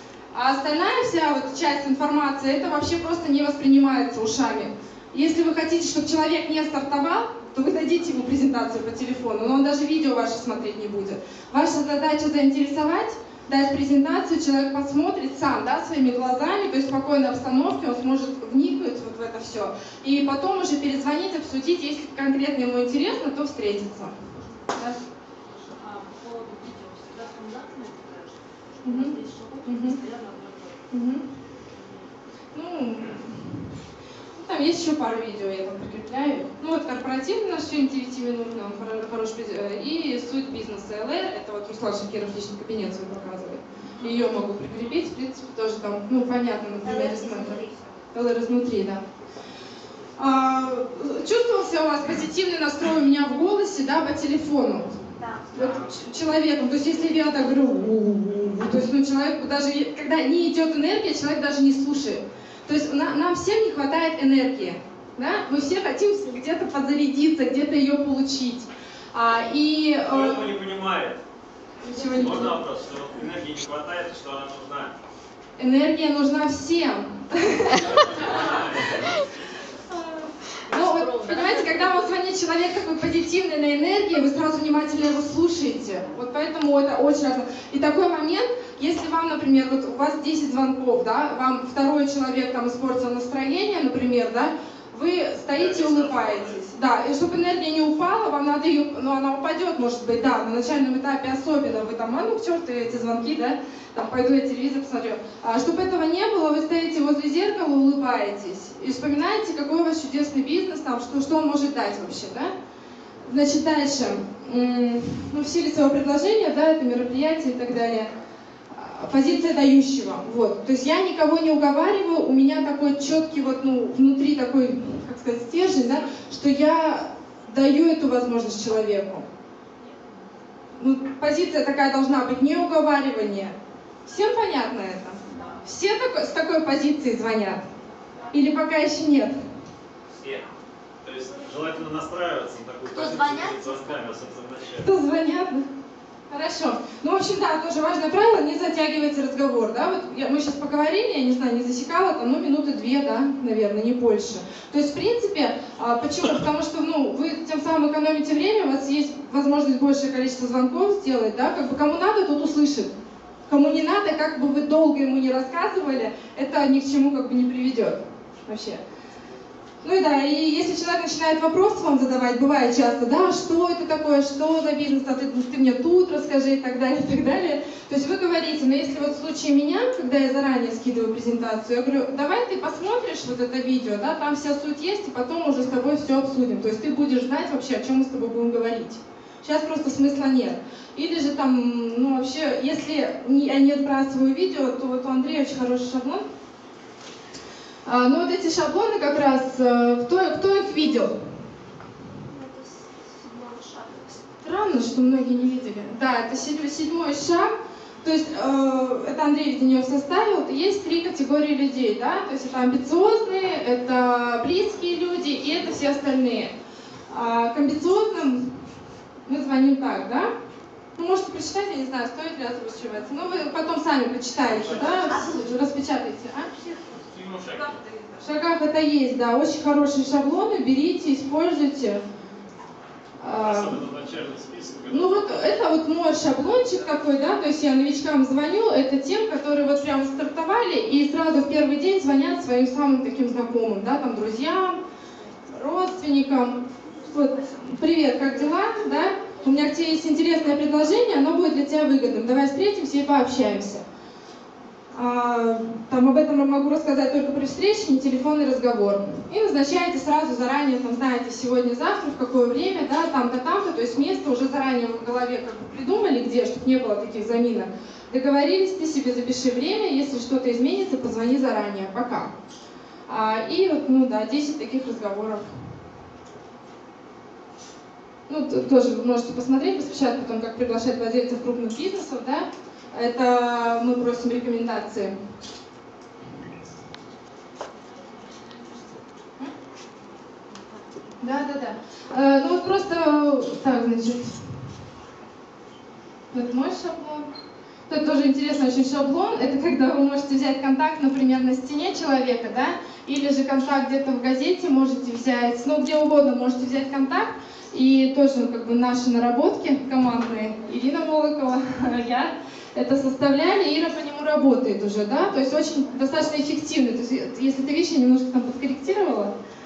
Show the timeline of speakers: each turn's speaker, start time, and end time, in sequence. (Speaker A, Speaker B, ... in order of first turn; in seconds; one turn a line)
Speaker A: 0.3-24.1
Speaker B: 25.4-30.8
Speaker A: 28.8-30.0
Speaker A: 30.9-31.2
Speaker A: 32.5-33.6
Speaker A: 34.4-47.6
Speaker B: 46.8-47.8
Speaker A: 48.1-49.0
Speaker A: 50.2-55.0
Speaker B: 55.2-55.7
Speaker A: 55.5-70.5
Speaker C: 70.1-71.2
Speaker A: 71.8-72.6
Speaker C: 72.0-74.9
Speaker A: 75.6-78.4
Speaker C: 78.2-79.0
Speaker A: 79.9-112.5
Speaker B: 80.7-81.8
Speaker C: 95.5-96.6
Speaker A: 113.2-118.1
Speaker A: 118.7-129.2
Speaker A: 130.8-137.6
Speaker B: 135.3-135.6
Speaker A: 138.3-139.3
Speaker C: 140.2-140.5
Speaker C: 141.0-144.9
Speaker B: 142.9-144.1
Speaker A: 144.8-145.6
Speaker A: 146.3-162.9
Speaker A: 163.5-168.8
Speaker A: 169.8-196.2
Speaker A: 197.8-201.1
Speaker B: 202.1-204.2
Speaker A: 204.4-216.5
Speaker A: 217.1-218.5
Speaker A: 219.2-220.3
Speaker A: 220.9-226.5
Speaker B: 224.6-225.5
Speaker B: 226.6-228.2
Speaker C: 227.1-227.7
Speaker A: 228.2-232.0
Speaker A: 233.2-233.8
Speaker C: 233.3-235.4
Speaker A: 234.9-244.8
Speaker A: 245.5-253.8
Speaker A: 254.9-272.3
Speaker A: 273.1-275.5
Speaker A: 278.3-285.1
Speaker A: 291.2-294.4
Speaker A: 296.3-297.3
Speaker A: 297.9-319.3